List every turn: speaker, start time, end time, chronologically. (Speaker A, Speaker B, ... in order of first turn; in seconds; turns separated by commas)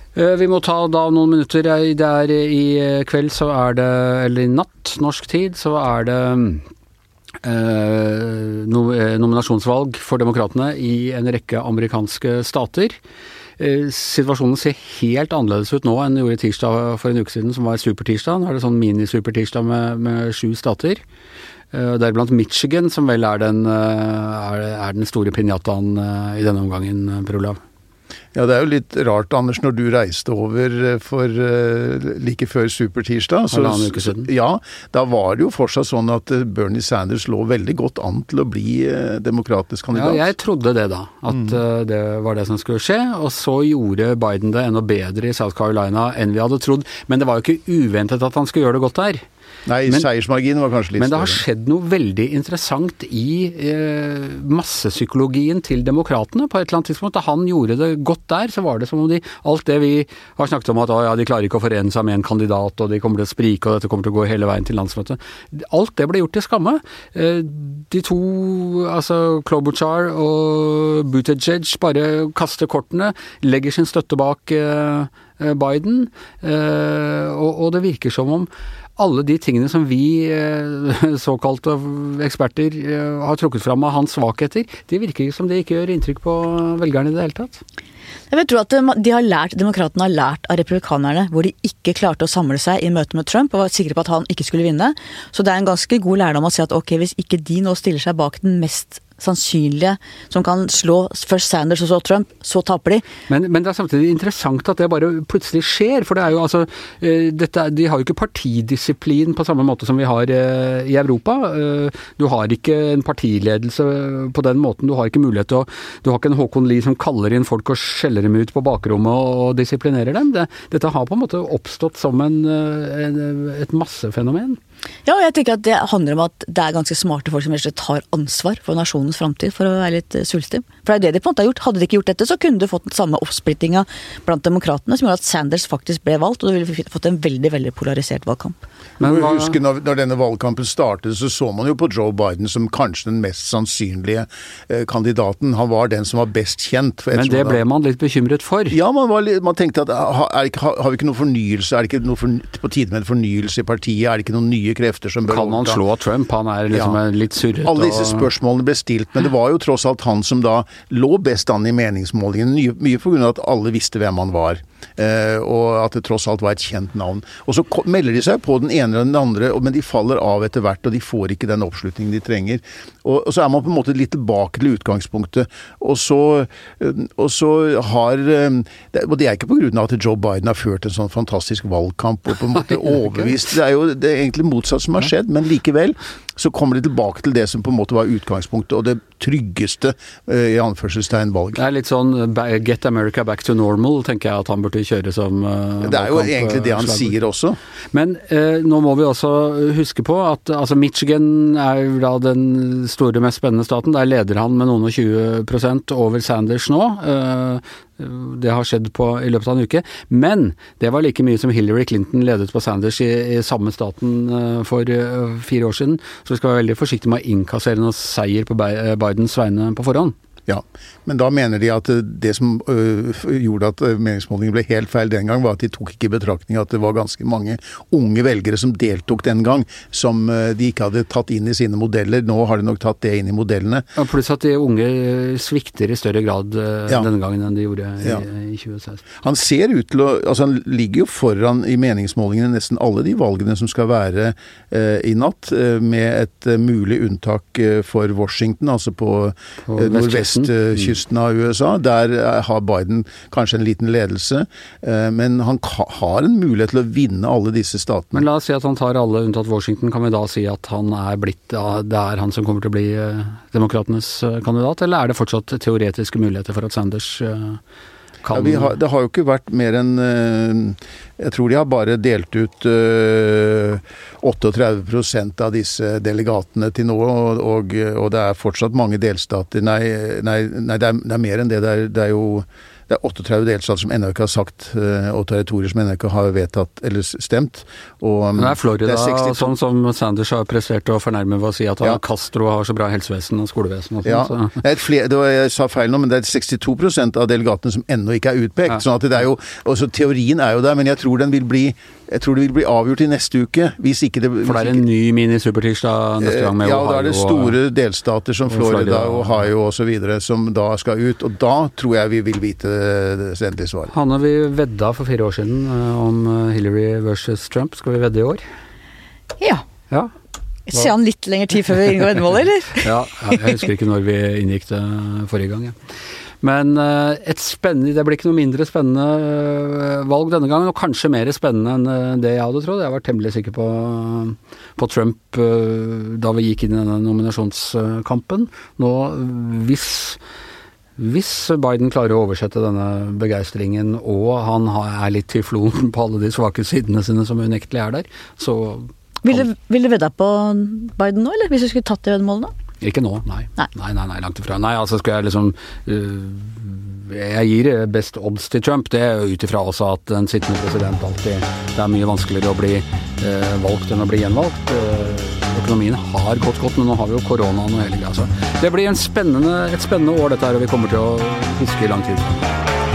Speaker A: 0.1-6.7, Speaker A: 7.4-13.0, Speaker A: 13.6-21.0, Speaker A: 21.7-27.6, Speaker B: 28.4-40.3, Speaker A: 33.5-34.3, Speaker A: 39.9-49.2, Speaker B: 49.7-51.4, Speaker A: 51.0-87.6, Speaker C: 88.3-103.1, Speaker A: 103.3-124.6, Speaker C: 125.1-138.7, Speaker A: 139.0-139.6, Speaker B: 139.0-147.6, Speaker A: 147.1-148.8, Speaker B: 148.7-155.8, Speaker A: 155.3-158.3, Speaker B: 156.7-157.0, Speaker B: 157.6-191.6, Speaker A: 182.8-183.4, Speaker A: 191.6-197.2, Speaker B: 195.8-197.6, Speaker A: 197.9-220.2, Speaker B: 220.5-233.9, Speaker A: 234.0-239.0, Speaker B: 239.2-258.3, Speaker A: 249.7-251.0, Speaker A: 258.1-267.6, Speaker A: 268.2-268.7, Speaker B: 268.3-289.5, Speaker A: 288.4-294.6, Speaker B: 294.0-304.8, Speaker A: 304.4-307.6, Speaker B: 306.2-313.9, Speaker A: 308.5-309.5, Speaker A: 313.9-318.4, Speaker C: 320.7-323.4, Speaker A: 322.8-325.8, Speaker A: 326.4-340.2, Speaker A: 341.0-349.4, Speaker C: 349.2-352.5, Speaker A: 352.8-372.5